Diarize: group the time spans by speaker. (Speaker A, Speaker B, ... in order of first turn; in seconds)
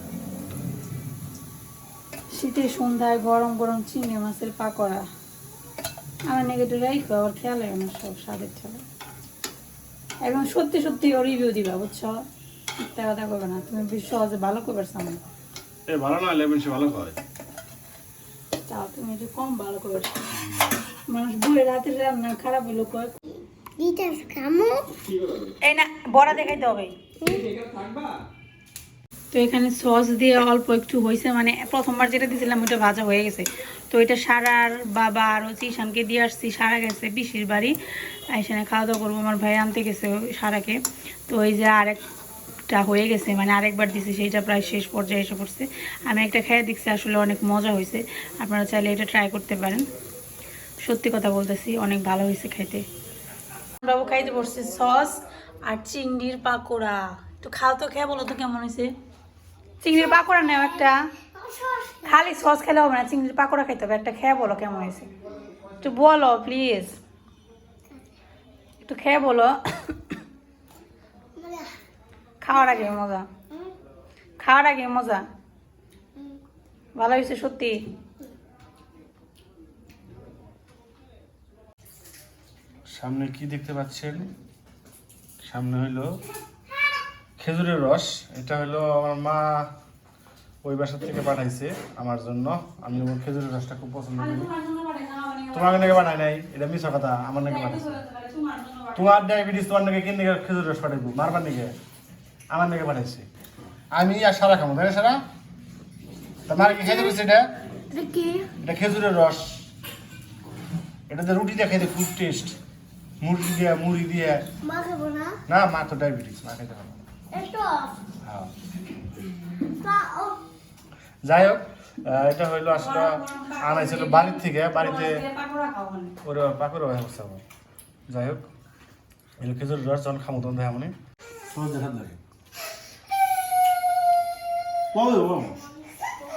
Speaker A: 2.3-5.0, 6.3-8.8, 10.2-12.2, 12.8-15.2, 18.7-20.2, 21.1-23.1, 25.6-27.0, 29.3-42.0, 42.7-49.9, 50.8-52.8, 53.8-58.9, 59.8-61.0, 62.0-65.1, 65.7-66.9, 68.8-70.2, 72.4-73.3, 74.4-75.2, 77.0-77.8, 94.1-96.1, 97.4-99.2, 122.7-126.2
Speaker B: 15.9-17.2, 82.9-84.3, 85.4-86.1, 87.4-89.7, 90.6-94.5, 95.5-97.9, 98.9-101.7, 102.5-103.3, 103.9-105.2, 106.5-107.5, 108.6-109.6, 111.1-112.6, 113.2-114.5, 115.5-117.0, 118.2-118.5, 121.2-125.2, 126.2-127.4, 128.1-128.5, 129.4-130.9, 131.5-132.2, 134.9-135.6
Speaker C: 23.8-24.9, 27.2-27.5, 61.3-62.1, 71.3-71.7, 106.9-107.1, 107.9-108.5, 114.6-115.4, 117.3-118.0, 119.8-120.4